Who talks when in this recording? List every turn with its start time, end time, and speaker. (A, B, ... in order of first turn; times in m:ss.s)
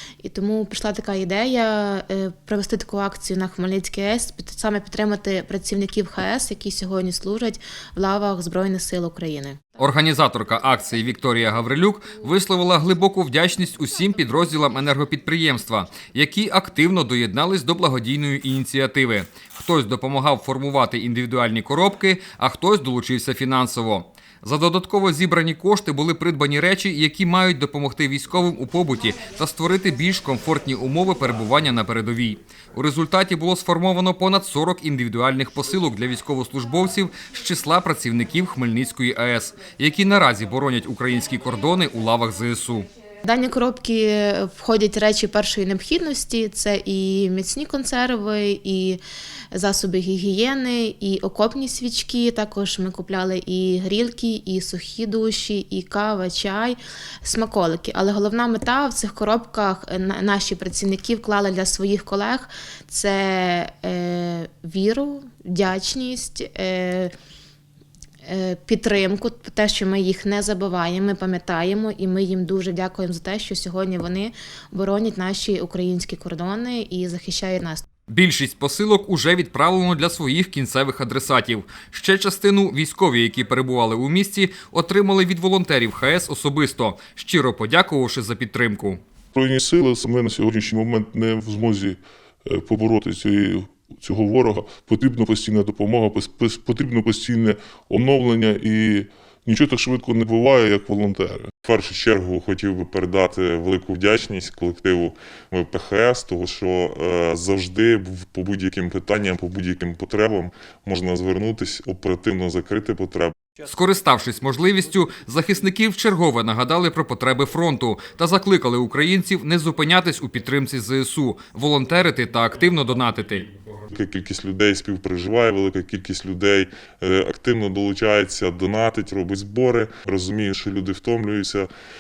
0:00.2-0:09.8 A
0:09.8-0:42.9 B
0:43.2-0:49.0 A
0:49.5-1:07.1 A
1:08.3-1:17.8 A
1:18.1-1:29.0 B
1:29.3-1:41.5 C
1:41.6-1:53.4 D
1:53.6-2:03.5 B
2:03.9-2:11.7 D